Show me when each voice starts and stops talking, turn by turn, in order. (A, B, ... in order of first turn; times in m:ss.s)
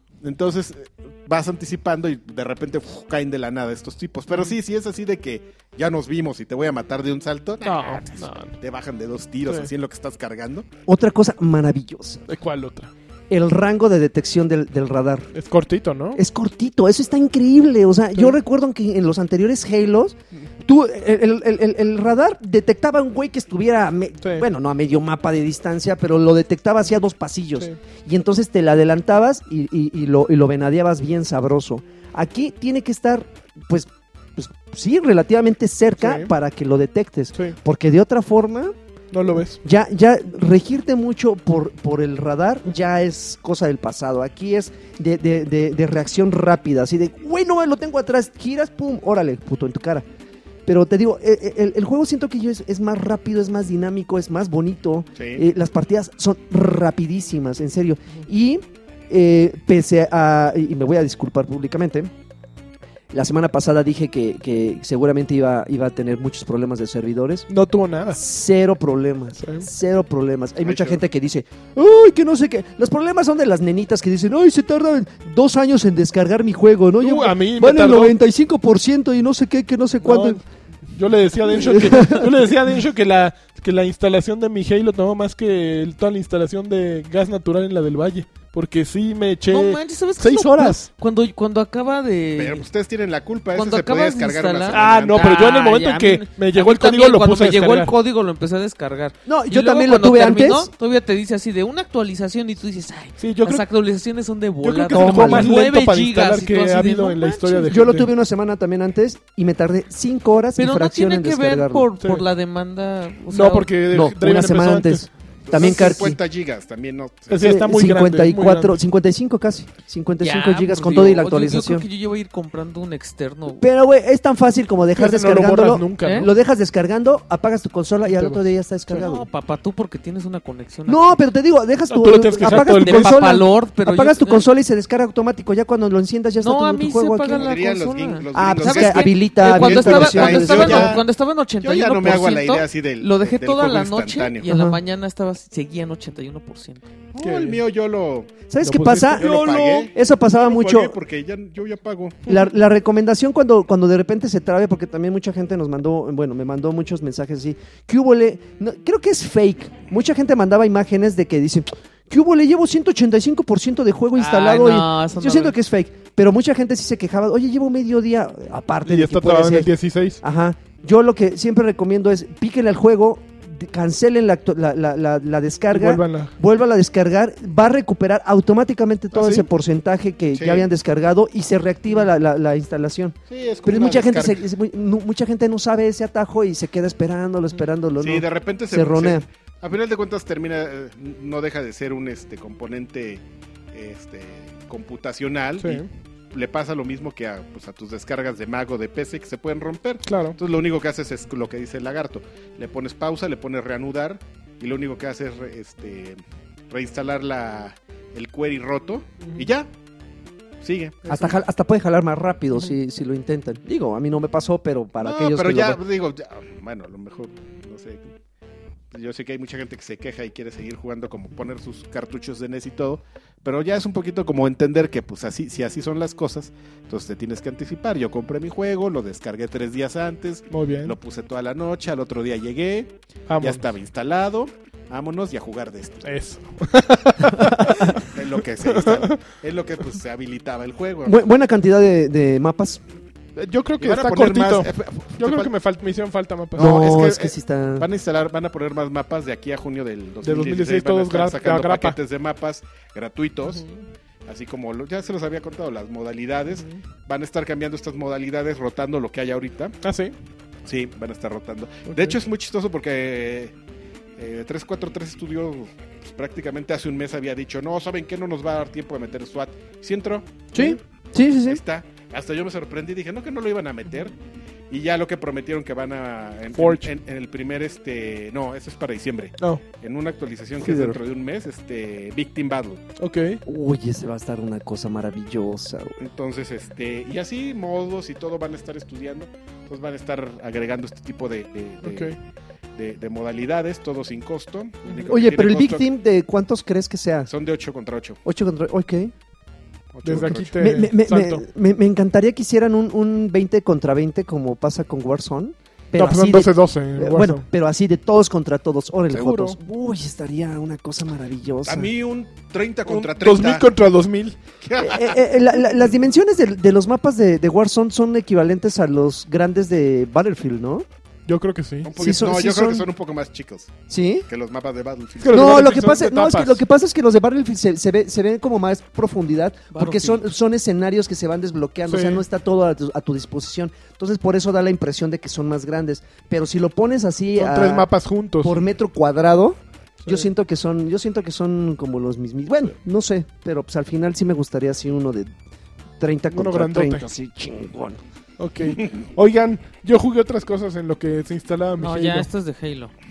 0:00.2-0:10.7 A
0:07.6-0:08.5 B
0:10.9-0:12.2 C
0:12.3-0:12.9 B
0:13.3-0:15.3 C
0:15.3-0:16.2 B
0:16.1-0:38.7 C
0:36.0-0:36.3 B
0:39.1-0:39.6 B
0:39.6-0:50.0 C
0:50.6-1:02.1 C
0:55.2-0:55.4 A
1:03.1-1:07.5 C
1:07.5-1:08.2 B
1:08.1-1:20.4 C
1:09.4-1:09.6 B
1:10.6-1:11.0 A
1:17.0-1:18.1 B
1:20.0-1:30.9 B
1:21.5-1:22.3 C
1:29.5-1:32.6 D
1:32.4-1:35.4 A
1:33.5-1:47.8 D
1:34.7-1:37.9 B
1:39.3-1:40.7 C
1:43.2-1:43.6 B
1:44.6-1:48.1 B
1:44.9-1:45.6 C
1:47.7-1:51.9 C
1:50.6-1:53.7 D
1:52.0-1:52.3 B
1:53.3-1:56.0 B
1:53.9-1:56.2 C
1:55.5-1:57.6 A
1:57.3-1:58.8 B
1:57.4-2:01.8 C
2:00.2-2:03.6 D
2:03.6-2:09.3 C
2:05.0-2:06.3 B
2:06.0-2:06.3 D
2:08.1-2:08.4 B
2:08.9-2:11.2 D
2:10.9-2:17.5 C
2:11.9-2:13.2 B
2:12.4-2:14.5 D
2:16.4-2:26.8 D
2:17.3-2:21.0 A
2:18.3-2:21.0 C
2:21.6-2:24.5 A
2:24.4-2:24.8 C
2:27.1-2:28.4 A
2:27.2-2:27.6 B
2:28.5-2:31.0 C
2:28.6-2:29.6 B
2:29.1-2:32.3 A
2:32.3-2:49.7 C
2:44.1-2:45.5 D
2:48.8-2:50.2 B
2:50.2-3:09.2 C
2:55.7-2:56.3 B
2:59.1-2:59.5 B
3:00.3-3:00.7 A
3:03.3-3:04.4 A
3:08.0-3:26.2 A
3:15.6-3:15.9 B
3:20.0-3:20.4 B
3:26.7-3:29.7 A
3:30.6-3:31.4 A
3:31.1-3:35.8 C
3:35.0-3:38.1 A
3:38.9-3:56.0 A
3:50.5-3:50.9 B
3:53.3-3:53.6 B
3:56.0-3:58.0 B
3:57.9-4:01.2 A
3:58.6-3:59.2 B
4:01.0-4:02.8 C
4:03.4-4:06.8 B
4:03.8-4:05.5 A
4:06.6-4:13.6 A
4:06.6-4:07.9 C
4:10.2-4:12.0 B
4:13.4-4:13.8 B
4:14.3-4:19.8 A
4:19.8-4:20.1 B
4:20.6-4:23.5 A
4:21.9-4:22.2 B
4:24.2-4:30.8 A
4:30.5-4:31.6 C
4:31.4-4:34.1 A
4:34.7-4:42.8 A
4:36.6-4:36.9 B
4:40.6-4:41.0 C
4:43.0-4:43.4 B
4:43.4-4:46.0 C
4:46.0-4:52.1 A
4:51.8-4:52.1 B
4:52.8-4:55.8 A
4:55.1-4:57.3 C
4:57.3-4:58.2 A
4:58.3-4:59.1 C
4:59.9-5:00.8 A
5:00.0-5:01.4 B
5:00.6-5:11.9 C
5:06.0-5:07.4 B
5:09.1-5:09.6 B
5:11.6-5:13.7 A
5:12.9-5:14.4 B
5:14.6-5:15.2 A
5:14.8-5:20.8 C
5:21.3-5:21.9 B
5:21.8-5:25.7 A
5:22.0-5:22.8 C
5:23.9-5:24.3 C
5:25.2-5:26.6 B
5:25.3-5:37.9 C
5:29.7-5:30.2 D
5:31.9-5:32.2 B
5:37.4-5:38.6 B
5:38.4-5:45.3 C
5:46.0-5:48.0 C
5:46.3-5:47.0 B
5:48.4-5:52.3 B
5:51.8-5:52.9 D